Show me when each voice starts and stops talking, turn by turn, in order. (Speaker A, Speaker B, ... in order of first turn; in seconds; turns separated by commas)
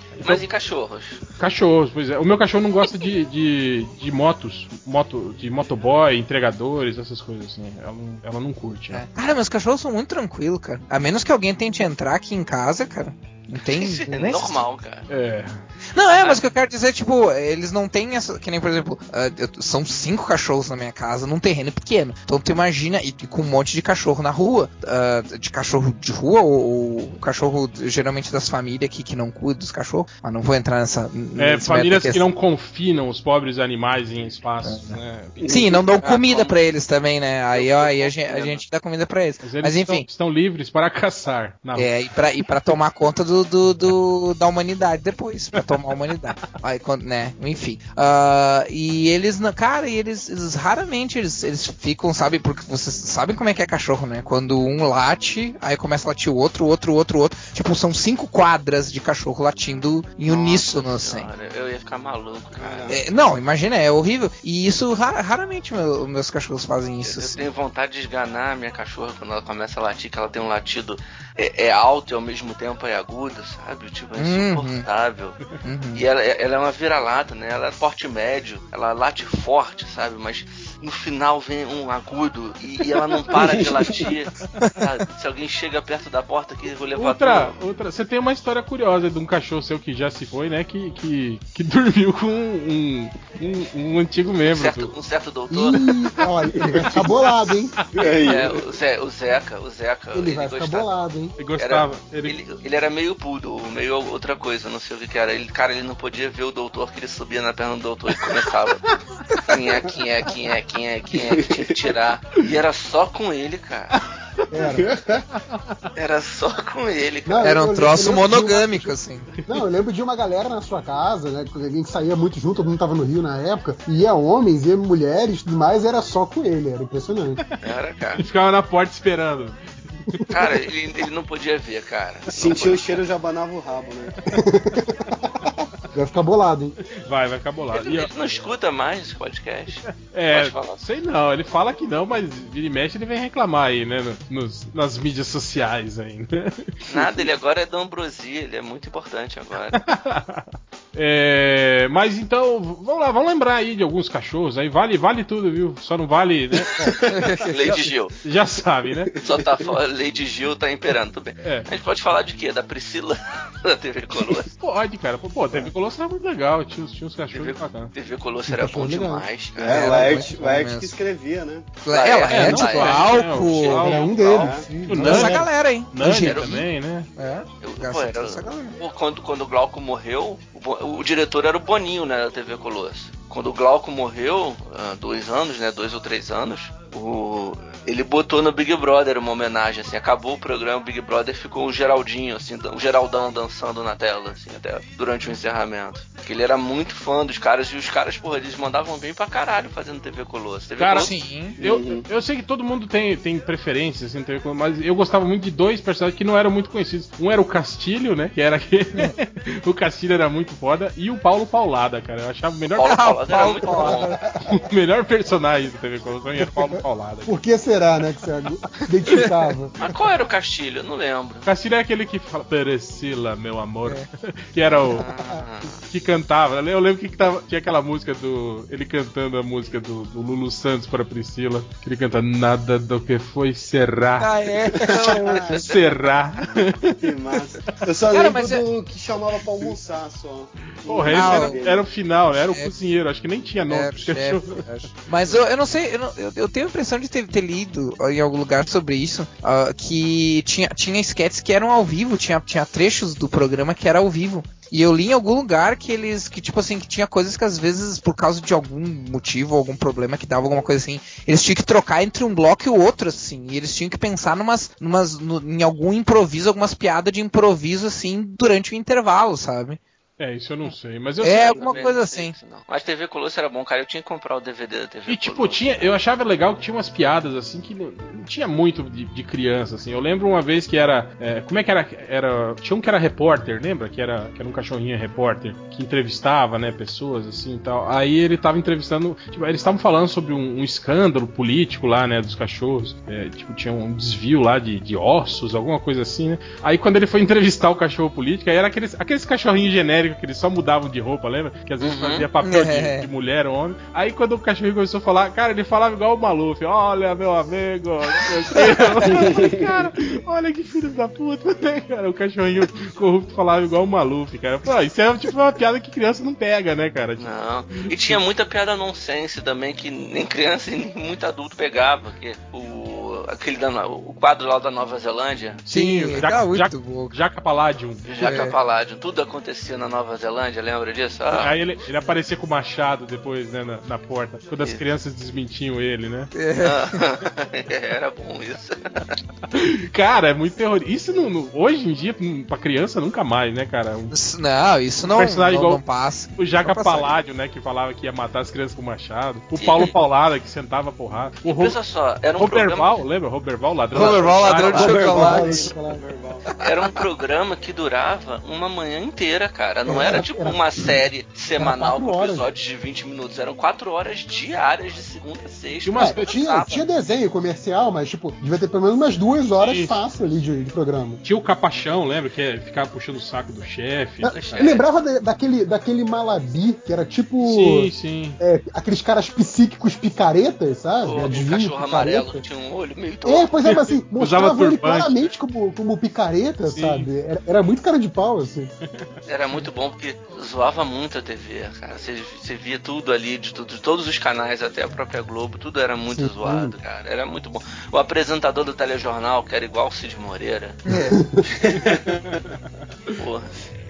Speaker A: 0.2-1.2, Speaker B: 1.4-9.0, Speaker C: 8.9-14.7, Speaker A: 13.6-15.1, Speaker B: 15.1-15.6, Speaker C: 15.9-32.3, Speaker B: 31.4-35.8, Speaker C: 34.6-40.0, Speaker D: 35.4-35.8, Speaker A: 36.0-36.5, Speaker A: 37.5-38.6, Speaker B: 39.4-41.9, Speaker C: 41.8-61.3, Speaker A: 60.3-63.0, Speaker D: 62.5-63.0, Speaker C: 62.9-67.4, Speaker A: 67.0-75.4, Speaker C: 74.2-74.8, Speaker C: 75.6-76.0, Speaker A: 75.9-87.5, Speaker D: 83.4-84.0, Speaker B: 87.0-94.9, Speaker A: 94.4-96.0, Speaker E: 95.5-97.8, Speaker B: 97.3-98.1, Speaker D: 97.9-98.5, Speaker A: 98.2-100.9, Speaker E: 100.1-101.3, Speaker B: 101.4-102.3, Speaker A: 101.6-108.9, Speaker A: 109.4-113.9, Speaker D: 111.3-111.7, Speaker E: 114.5-115.0, Speaker D: 114.8-115.2, Speaker B: 115.3-115.9, Speaker A: 115.9-117.6, Speaker E: 117.2-127.4, Speaker C: 117.4-119.3, Speaker A: 127.6-128.2, Speaker B: 128.2-130.2, Speaker A: 130.3-133.0, Speaker D: 132.3-134.1, Speaker E: 134.3-135.1, Speaker E: 135.9-136.8, Speaker B: 137.0-138.1, Speaker A: 137.7-140.8, Speaker B: 139.9-146.7, Speaker A: 146.9-149.8, Speaker B: 149.7-157.0, Speaker C: 157.1-157.8, Speaker A: 157.4-158.2, Speaker B: 157.7-159.1, Speaker D: 159.2-159.7, Speaker A: 159.2-164.5, Speaker B: 161.4-161.7, Speaker B: 164.6-167.9, Speaker A: 167.3-170.1, Speaker E: 168.4-169.3, Speaker D: 169.6-171.8, Speaker C: 169.6-170.9, Speaker C: 171.8-173.9, Speaker A: 171.9-174.6, Speaker B: 172.3-174.2, Speaker E: 173.8-175.4, Speaker D: 174.4-174.7, Speaker B: 174.8-177.1, Speaker C: 174.9-178.8, Speaker A: 176.2-176.6, Speaker A: 177.6-201.1, Speaker B: 200.8-213.1, Speaker C: 201.0-201.6, Speaker D: 201.6-202.0, Speaker A: 212.8-214.2, Speaker C: 212.8-214.2, Speaker E: 213.8-214.5, Speaker B: 214.4-217.4, Speaker E: 217.2-219.7, Speaker A: 219.8-221.4, Speaker B: 221.4-225.1, Speaker A: 224.7-225.8, Speaker B: 225.9-234.3, Speaker C: 234.2-235.6, Speaker D: 234.8-235.6, Speaker A: 235.2-235.8, Speaker B: 235.5-236.9, Speaker D: 236.8-241.9, Speaker C: 238.1-238.6, Speaker B: 240.8-244.6, Speaker C: 241.1-241.6, Speaker C: 243.7-269.8, Speaker B: 270.2-271.7, Speaker C: 270.6-272.3, Speaker A: 271.5-275.9, Speaker B: 275.1-318.2, Speaker C: 301.9-303.1, Speaker D: 309.2-309.6, Speaker A: 317.2-325.6, Speaker B: 325.6-328.1, Speaker C: 325.7-327.1, Speaker A: 328.1-331.5, Speaker C: 328.2-328.6, Speaker B: 331.3-336.3, Speaker C: 336.3-337.0, Speaker A: 336.6-339.1, Speaker B: 339.5-344.1, Speaker C: 344.1-347.1, Speaker B: 345.0-345.8, Speaker B: 346.4-351.8, Speaker A: 349.6-349.9, Speaker A: 351.4-353.0, Speaker B: 352.4-354.9, Speaker C: 353.9-355.7, Speaker A: 353.9-354.7, Speaker D: 354.5-356.5, Speaker E: 354.8-356.0, Speaker C: 356.5-357.0, Speaker A: 356.6-366.8, Speaker E: 359.9-360.6, Speaker E: 361.6-362.5, Speaker B: 365.8-366.5, Speaker E: 366.0-371.2, Speaker B: 369.6-369.9, Speaker B: 371.2-374.6, Speaker E: 374.2-382.4, Speaker A: 374.3-374.8, Speaker B: 377.4-378.4, Speaker A: 381.0-383.5, Speaker E: 383.2-388.7, Speaker B: 383.6-385.3, Speaker B: 386.7-387.1, Speaker B: 388.9-389.6, Speaker A: 389.3-400.8, Speaker E: 396.1-396.7, Speaker C: 400.9-401.2, Speaker E: 400.9-401.4, Speaker D: 401.6-402.0, Speaker B: 401.8-402.6, Speaker A: 403.1-403.5